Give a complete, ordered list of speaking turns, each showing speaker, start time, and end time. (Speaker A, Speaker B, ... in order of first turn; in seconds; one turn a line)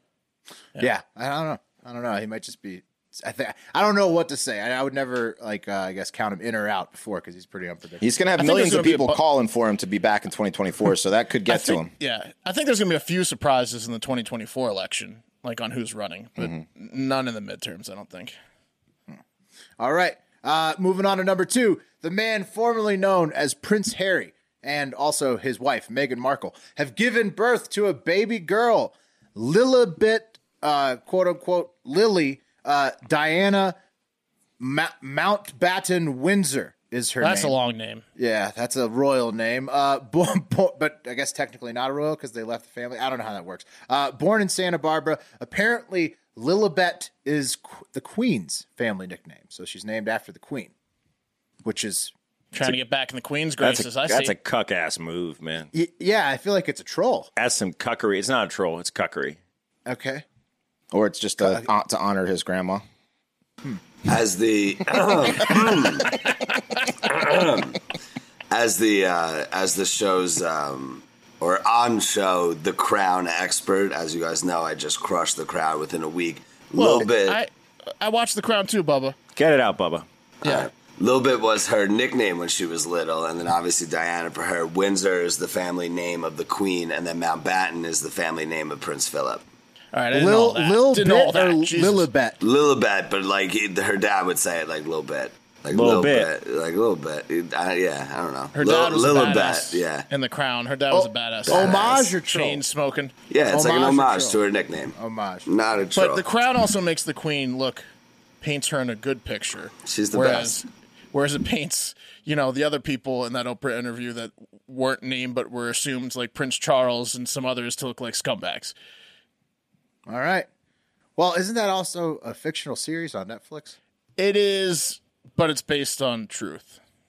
Speaker A: 0.8-8.0
Speaker B: 8.0-11.9
Speaker C: 8.4-9.2
Speaker C: 11.5-18.4
Speaker A: 19.8-33.8
Speaker A: 34.6-37.6
Speaker C: 37.2-38.0
Speaker A: 38.2-50.7
Speaker A: 51.6-52.1
Speaker C: 52.5-54.3
Speaker D: 53.6-55.7
Speaker A: 55.7-57.3
Speaker D: 57.4-59.4
Speaker A: 59.9-60.2
Speaker B: 60.9-62.8
Speaker A: 61.4-61.7
Speaker E: 64.0-66.3
Speaker E: 66.8-67.8
Speaker E: 68.5-77.4
Speaker C: 76.8-77.5
Speaker C: 78.0-79.2
Speaker D: 79.3-80.1
Speaker C: 80.4-80.7
Speaker E: 80.4-89.4
Speaker C: 89.9-92.1
Speaker A: 90.1-92.4
Speaker E: 92.4-100.1
Speaker D: 95.7-96.3
Speaker C: 98.5-103.1
Speaker A: 100.9-102.6
Speaker E: 101.5-102.0
Speaker E: 103.3-106.2
Speaker A: 103.5-104.4
Speaker A: 105.0-105.5
Speaker C: 106.0-107.8
Speaker C: 108.4-118.7
Speaker E: 109.8-110.6
Speaker A: 120.1-120.5
Speaker A: 121.2-123.8
Speaker C: 124.2-126.8